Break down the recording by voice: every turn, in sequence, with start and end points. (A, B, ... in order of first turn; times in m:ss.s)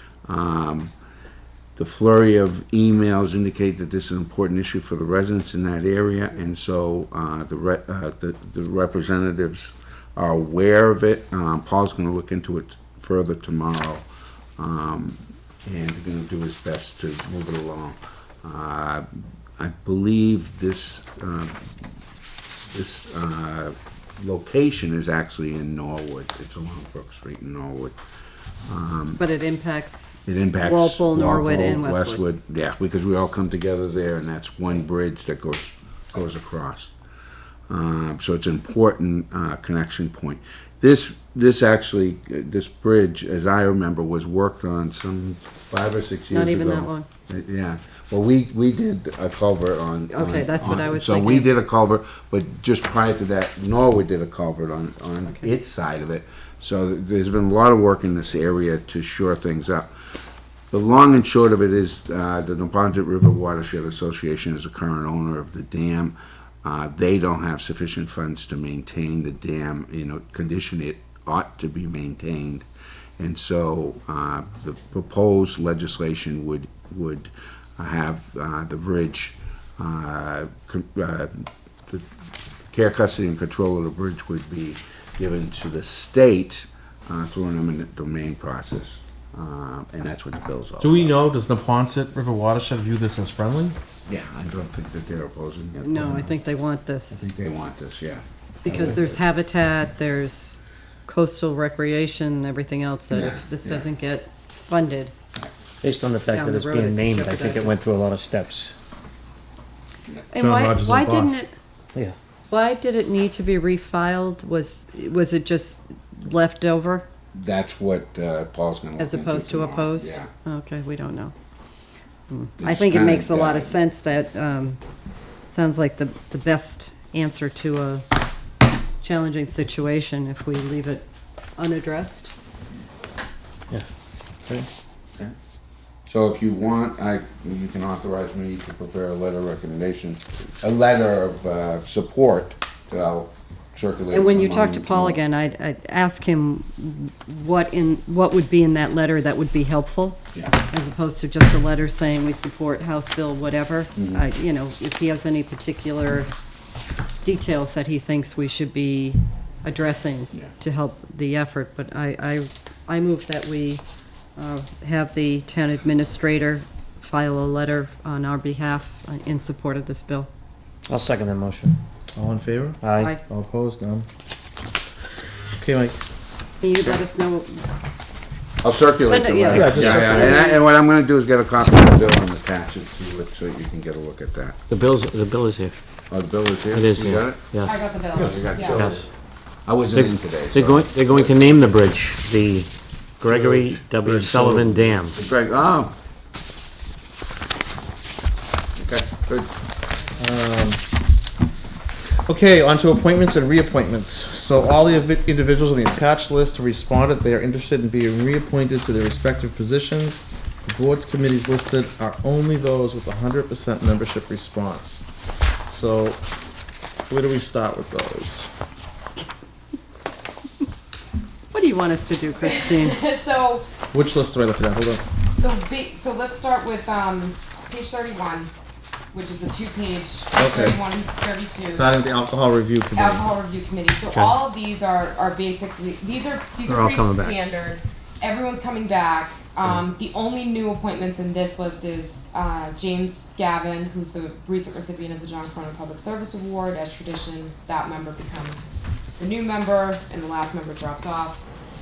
0:00.2-0:00.9 A
0:01.8-0:14.0 A
0:14.6-0:19.0 A
0:19.6-0:21.6 A
0:22.7-0:28.0 A
0:28.7-0:29.2 A
0:29.2-0:32.2 B
0:30.3-0:36.9 A
0:37.7-0:59.9 A
0:46.3-0:47.0 B
0:50.1-0:51.5 B
1:00.7-1:12.6 A
1:13.2-1:22.0 A
1:22.7-1:31.2 A
1:30.8-1:33.8 C
1:34.1-1:36.2 A
1:35.8-1:37.3 B
1:37.1-1:39.1 A
1:38.6-1:45.1 B
1:43.1-1:43.9 A
1:45.8-1:48.8 D
1:46.3-1:47.8 B
1:50.3-1:51.5 B
1:50.4-1:51.4 C
1:52.5-1:57.1 B
1:57.3-2:00.3 A
1:59.0-2:01.3 B
2:02.3-2:04.8 B
2:02.6-2:03.8 A
2:05.5-2:08.0 B
2:09.0-2:11.0 B
2:11.6-2:12.3 B
2:16.1-2:25.2 A
2:24.1-2:36.3 B
2:34.0-2:34.2 A
2:37.2-2:43.8 B
2:44.4-2:50.3 B
2:50.9-2:51.8 D
2:52.2-2:54.1 C
2:52.8-2:53.1 D
2:55.6-2:56.0 C
2:56.6-2:57.6 B
2:58.6-3:04.6 A
2:59.1-3:00.6 B
2:59.4-3:00.4 C
2:59.5-2:59.9 D
3:04.7-3:05.8 D
3:06.1-3:07.4 A
3:06.7-3:07.8 D
3:07.6-3:08.9 E
3:08.1-3:09.1 A
3:08.7-3:09.0 D
3:09.7-3:11.7 A
3:09.9-3:15.2 D
3:13.3-3:14.9 C
3:15.1-3:15.9 A
3:18.8-3:19.5 A
3:20.2-3:20.8 C
3:22.2-3:35.0 C
3:35.7-3:36.2 C
3:37.1-3:38.5 C
3:41.5-3:43.0 B
3:42.4-3:43.7 E
3:43.9-3:45.0 C
3:45.3-3:48.5 E
3:49.1-3:51.9 E
3:50.4-3:50.8 C
3:51.7-3:53.3 C
3:53.0-4:11.4 E
3:54.1-3:54.4 D
3:56.7-3:57.4 D